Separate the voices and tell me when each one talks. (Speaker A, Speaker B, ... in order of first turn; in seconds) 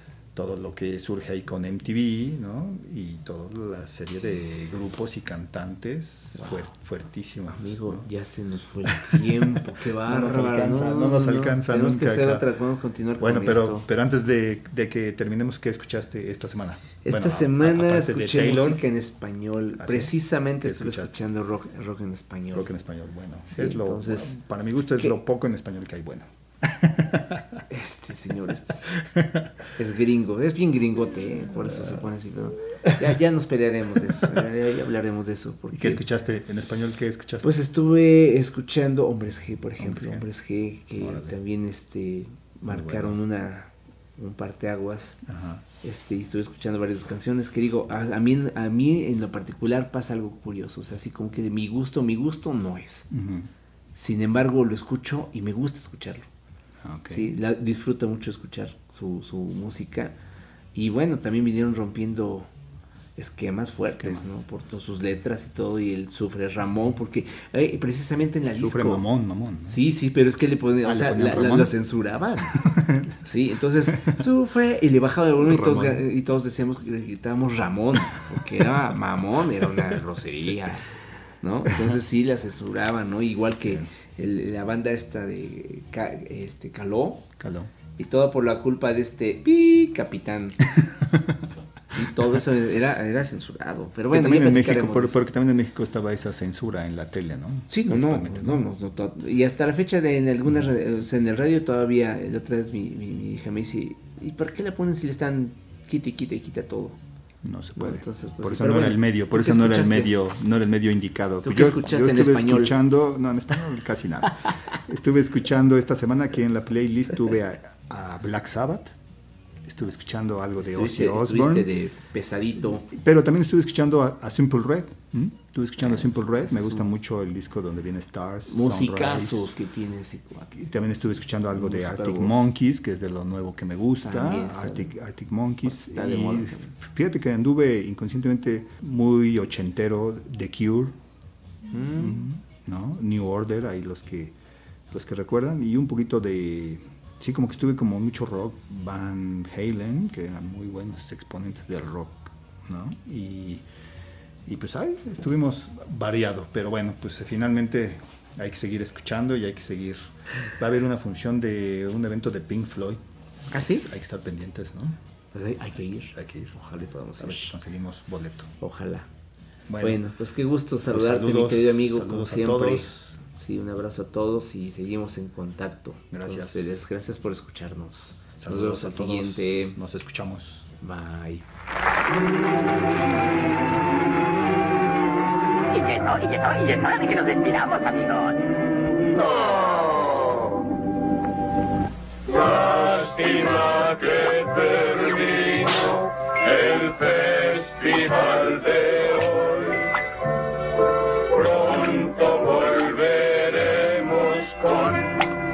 Speaker A: 0.3-8.1, 8.8-12.5, 13.2-18.8, 19.8-21.2, 22.5-27.6, 28.9-29.5, 31.6-32.0, 35.7-37.5, 39.8-40.3, 41.0-41.4, 42.7-43.2, 45.3-45.6, 53.1-53.5, 56.8-57.3, 63.9-64.5, 68.6-69.8, 70.8-71.8, 72.5-73.2, 73.9-74.2, 75.4-76.0, 83.6-83.9, 87.4-87.7, 90.8-91.3, 94.1-98.6, 107.4-119.0, 119.6-121.7, 122.6-129.5, 130.5-140.9, 141.9-144.3, 144.9-153.6, 154.5-163.0, 163.5-165.0, 166.1-166.5, 167.2-168.5, 169.7-170.0, 170.9-173.2, 176.1-176.8, 178.4-180.7
Speaker B: 7.5-13.9, 17.0-22.7, 23.5-24.4, 27.7-28.9, 29.8-36.0, 37.4-45.2, 45.8-53.1, 54.0-56.3, 57.1-60.1, 60.8-62.5, 63.2-69.0, 69.7-72.7, 73.2-80.9, 81.4-87.3, 88.0-90.7, 91.9-95.2, 97.7-107.0, 107.8-110.1, 111.4-112.8, 120.6-122.9, 125.8-126.8, 128.5-130.7, 131.5-132.5, 134.0-134.9, 135.6-136.8, 141.7-142.2, 163.5-163.9, 165.3-167.6, 168.6-169.1, 169.8-179.8, 180.8-181.4
Speaker C: 185.7-190.6, 192.2-200.0, 201.2-205.3